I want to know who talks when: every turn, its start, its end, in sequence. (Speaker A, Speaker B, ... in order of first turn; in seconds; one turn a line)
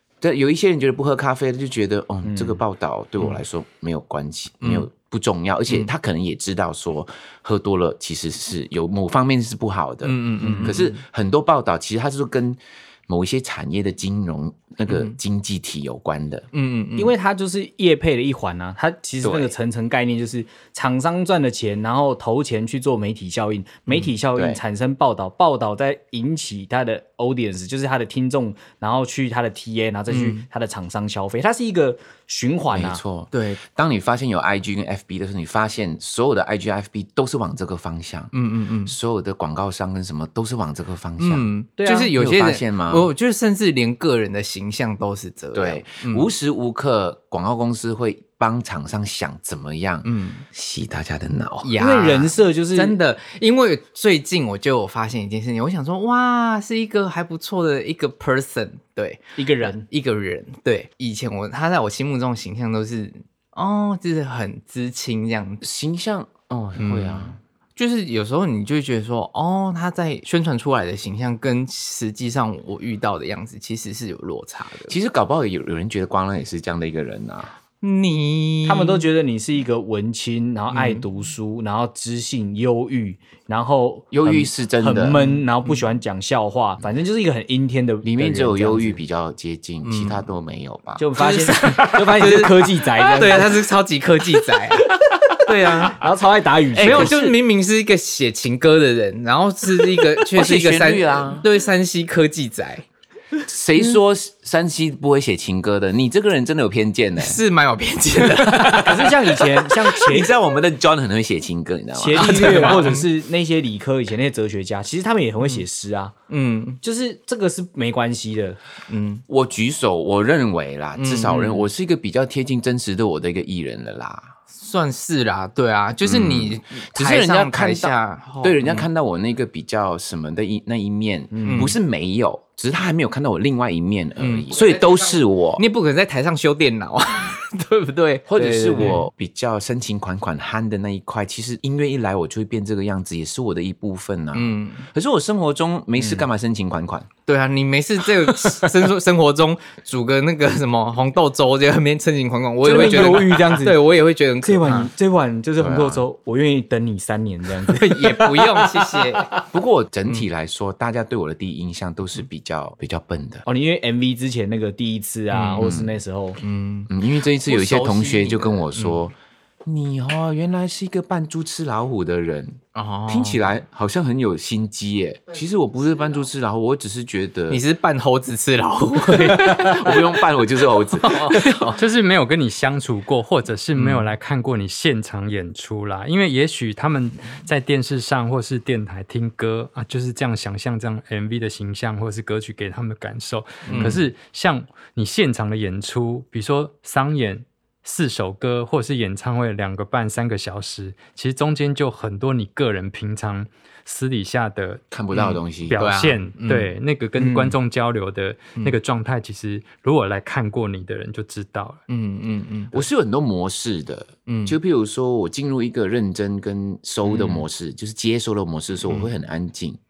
Speaker A: 0.2-16.4
Speaker B: 2.2-2.6
Speaker C: 4.6-4.9
Speaker C: 10.0-11.0
Speaker B: 10.4-10.8
Speaker C: 14.9-15.2
Speaker C: 16.5-17.1
Speaker B: 17.0-33.0
Speaker A: 19.2-19.5
Speaker A: 24.3-24.6
Speaker C: 30.1-30.4
Speaker A: 32.7-38.3
Speaker C: 33.3-33.6
Speaker C: 38.3-38.9
Speaker A: 38.9-41.5
Speaker C: 41.2-46.3
Speaker B: 41.8-42.1
Speaker A: 42.1-43.1
Speaker A: 45.5-51.7
Speaker C: 50.0-50.5
Speaker C: 51.6-65.6
Speaker B: 51.8-53.0
Speaker B: 59.4-59.8
Speaker A: 65.6-67.4
Speaker C: 66.8-74.9
Speaker A: 74.9-77.5
Speaker C: 77.8-79.1
Speaker B: 78.7-89.0
Speaker C: 80.7-81.0
Speaker A: 84.1-85.3
Speaker C: 85.2-85.8
Speaker A: 88.0-91.0
Speaker C: 89.8-90.2
Speaker B: 91.0-93.7
Speaker C: 91.2-94.9
Speaker A: 95.4-96.0
Speaker B: 95.8-97.1
Speaker A: 96.7-97.4
Speaker C: 96.8-102.8
Speaker A: 100.3-101.5
Speaker A: 103.5-107.4
Speaker C: 107.2-109.7
Speaker B: 108.6-110.3
Speaker A: 109.9-113.0
Speaker B: 111.9-116.1
Speaker C: 112.1-113.1
Speaker C: 116.3-116.8
Speaker B: 116.8-118.6
Speaker C: 118.9-119.2
Speaker A: 119.3-124.3
Speaker C: 121.0-121.7
Speaker C: 124.5-128.8
Speaker A: 126.0-135.6
Speaker B: 131.3-131.7
Speaker C: 131.4-131.7
Speaker C: 134.2-139.1
Speaker A: 138.3-147.1
Speaker C: 144.3-144.9
Speaker C: 145.9-146.3
Speaker C: 147.2-154.9
Speaker A: 148.3-148.6
Speaker B: 152.6-153.9
Speaker A: 152.7-153.6
Speaker B: 154.4-159.4
Speaker A: 155.6-156.0
Speaker C: 157.7-159.3
Speaker A: 159.5-163.4
Speaker B: 163.4-166.4
Speaker C: 165.3-165.6
Speaker A: 165.6-165.9
Speaker C: 166.4-166.9
Speaker A: 166.9-177.6
Speaker C: 167.4-169.0
Speaker C: 172.7-173.4
Speaker C: 177.5-180.1
Speaker A: 179.1-181.8
Speaker C: 180.9-181.8
Speaker D: 181.7-204.8
Speaker C: 193.6-194.0
Speaker A: 193.7-193.9
Speaker A: 204.9-205.8
Speaker C: 205.1-206.7
Speaker D: 205.7-211.8
Speaker B: 207.2-207.6
Speaker C: 211.9-212.8
Speaker A: 212.7-219.8
Speaker C: 214.3-214.6
Speaker C: 217.0-217.4